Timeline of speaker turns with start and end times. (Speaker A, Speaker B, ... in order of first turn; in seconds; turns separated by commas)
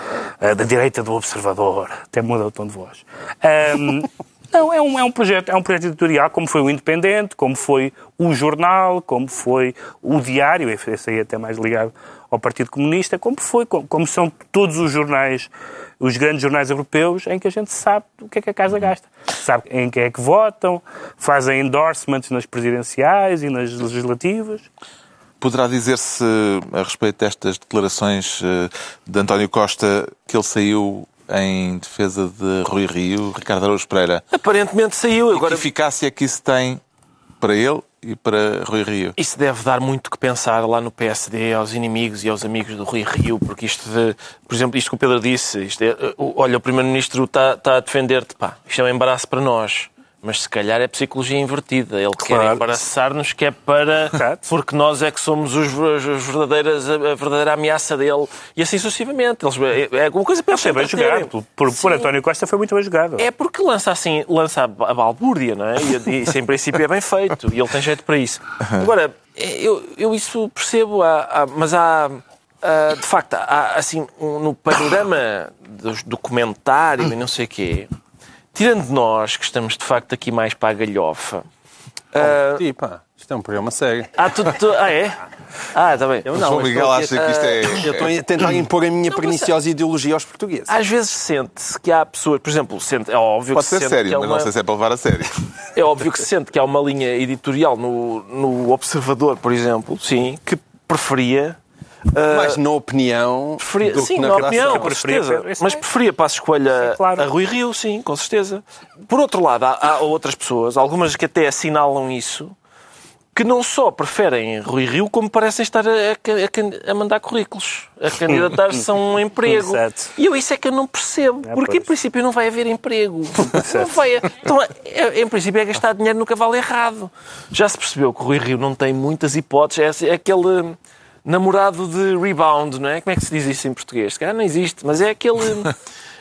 Speaker A: 0.4-24.7, Speaker B: 25.4-34.2, Speaker C: 34.3-35.7, Speaker B: 35.3-36.8, Speaker B: 37.4-39.2, Speaker C: 39.2-62.1, Speaker A: 52.3-52.6, Speaker A: 54.1-54.4, Speaker A: 60.5-63.2, Speaker C: 63.2-77.9, Speaker C: 78.5-81.5, Speaker C: 82.1-82.6, Speaker D: 82.2-84.1, Speaker C: 84.2-86.5, Speaker D: 86.2-90.8, Speaker B: 86.3-88.1, Speaker C: 87.1-87.8, Speaker C: 90.7-94.5, Speaker B: 93.5-95.3, Speaker C: 95.8-101.6, Speaker C: 102.1-102.6, Speaker D: 102.3-104.9, Speaker C: 103.6-112.5, Speaker A: 104.2-105.8, Speaker A: 106.7-107.3, Speaker C: 113.3-135.7, Speaker A: 118.3-118.8, Speaker A: 119.5-120.1, Speaker A: 121.5-121.9, Speaker A: 123.5-123.9